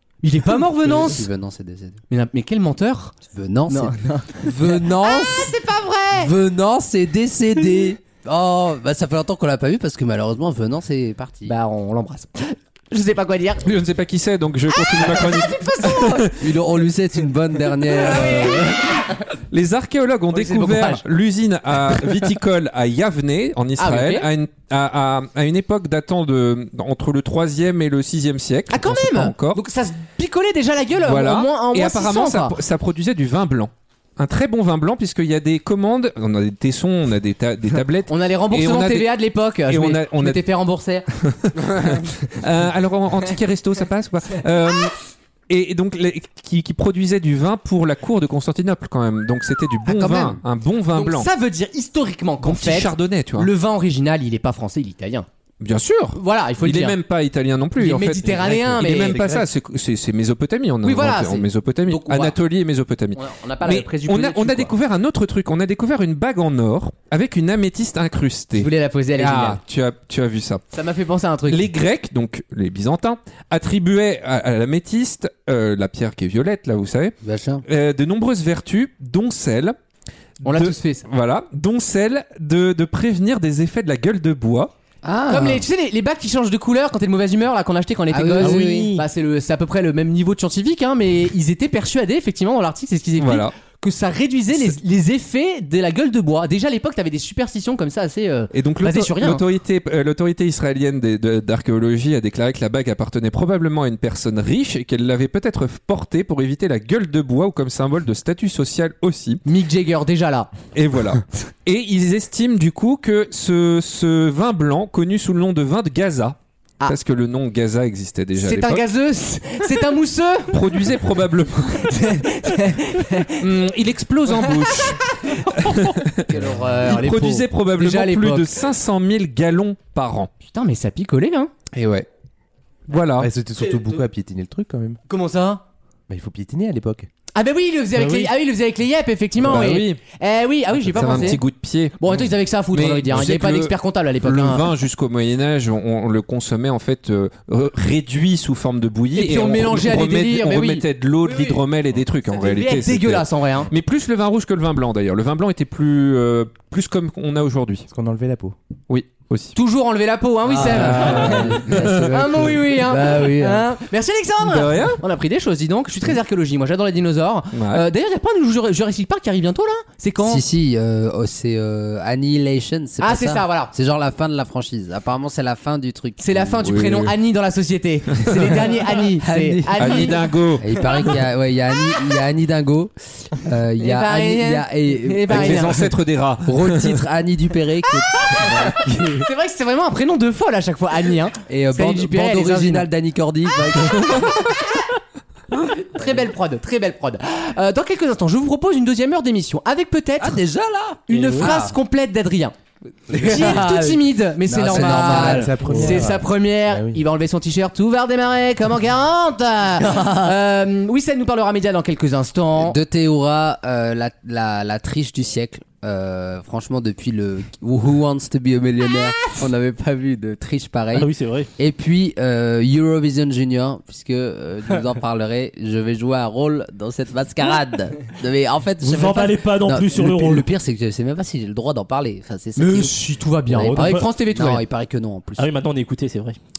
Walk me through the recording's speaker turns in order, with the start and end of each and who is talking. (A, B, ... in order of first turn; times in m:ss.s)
0:00.2-0:01.3 A
0:00.8-0:02.0 B
0:02.1-0:03.1 A
0:03.2-0:05.6 B
0:03.7-0:06.3 A
0:06.1-0:11.5 B
0:11.4-0:13.6 A
0:13.6-0:16.4 C
0:15.0-0:16.2 A
0:16.3-0:18.7 B
0:18.0-0:18.8 A
0:18.1-0:29.6 C
0:20.3-0:21.0 A
0:23.8-0:24.3 A
0:28.7-0:32.6 A
0:31.0-0:40.4 C
0:38.1-0:41.1 A
0:41.2-0:45.0 C
0:45.5-0:51.3 C
0:49.8-0:50.4 A
0:50.9-0:55.3 A
0:52.4-0:53.5 C
0:55.6-1:10.6 C
0:56.1-0:57.0 A
0:57.8-0:59.2 A
0:58.8-0:59.5 D
1:00.8-1:02.3 A
1:03.1-1:04.8 A
1:08.5-1:09.6 A
1:10.7-1:11.7 A
1:11.5-1:19.8 C
1:17.2-1:17.6 B
1:20.4-1:24.7 C
1:20.4-1:21.0 A
1:25.0-1:25.6 B
1:25.3-1:39.4 A
1:28.1-1:29.0 B
1:28.4-1:29.0 E
1:33.2-1:33.5 C
1:38.5-1:49.4 C
1:49.4-1:50.5 A
1:50.7-1:58.8 C
1:58.4-2:01.0 A
2:00.5-2:01.9 C
2:01.8-2:03.5 A
2:03.4-2:10.3 C
2:04.3-2:08.6 A
2:06.4-2:06.8 D
2:10.4-2:11.5 A
2:11.7-2:12.1 C
2:12.9-2:13.3 C
2:13.2-2:15.0 D
2:15.1-2:15.6 A
2:16.1-2:17.1 D
2:17.3-2:21.5 A
2:18.0-2:18.3 E
2:19.4-2:20.0 C
2:20.9-2:37.9 C
2:22.0-2:24.7 A
2:29.1-2:31.6 A
2:32.3-2:33.7 A
2:37.9-2:38.5 D
2:38.9-2:39.6 C
2:39.5-2:50.4 A
2:40.5-2:43.7 B
2:40.6-2:42.4 C
2:44.4-2:45.0 C
2:47.5-2:47.9 C
2:50.2-2:56.7 B
2:53.0-2:53.7 A
2:56.2-3:00.2 A
2:56.6-2:57.1 C
2:59.2-3:05.9 B
2:59.8-3:01.1 C
3:03.8-3:05.9 A
3:05.3-3:07.0 C
3:06.4-3:09.3 B
3:09.1-3:12.9 A
3:11.5-3:14.5 B
3:15.8-3:20.4 A
3:20.2-3:21.7 B
3:21.1-3:22.5 A
3:21.1-3:21.5 E
3:23.1-3:25.5 B
3:23.1-3:23.6 D
3:23.1-3:32.8 A
3:24.5-3:27.0 D
3:25.1-3:26.0 E
3:29.8-3:30.3 B
3:32.6-3:55.5 B
3:41.0-3:41.5 E
3:48.8-3:50.4 E
3:52.6-3:54.6 A
3:53.5-3:54.0 E
3:55.4-3:56.4 E